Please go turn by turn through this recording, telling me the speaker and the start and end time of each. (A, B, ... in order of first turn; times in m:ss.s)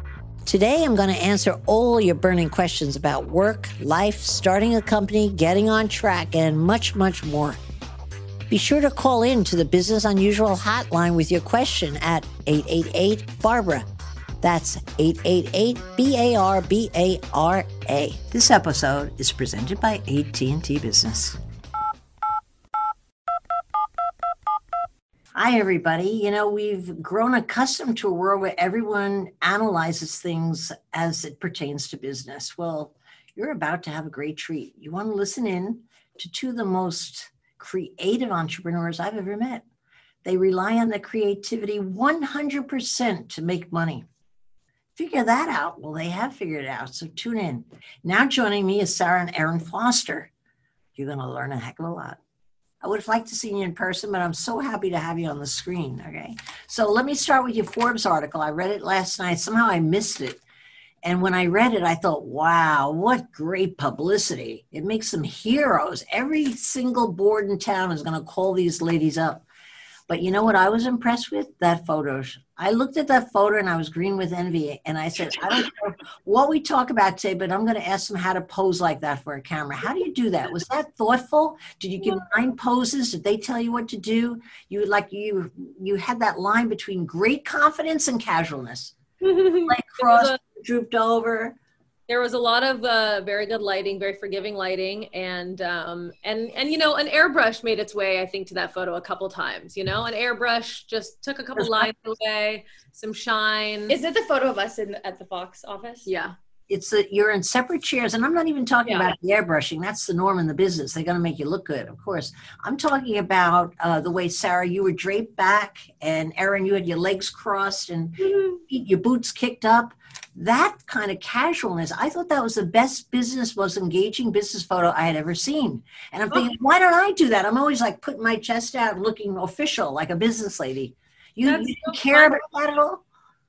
0:00.4-0:07.6 A
0:08.5-0:13.8 A
0:14.4-0:21.4 A
0:25.4-0:39.6 A
0:40.2-0:44.0 A
0:45.0-0:50.3 A
0:51.0-0:52.2 A
0:52.8-1:00.4 A
1:01.0-1:09.4 A
1:10.1-1:29.0 A
1:29.2-1:30.4 B
1:29.7-1:31.6 A
1:32.1-1:44.0 B
1:41.6-1:41.9 A
1:43.9-1:46.1 C
1:46.0-1:46.3 B
1:46.7-2:13.0 A
1:48.8-1:49.1 C
2:11.5-2:12.4 C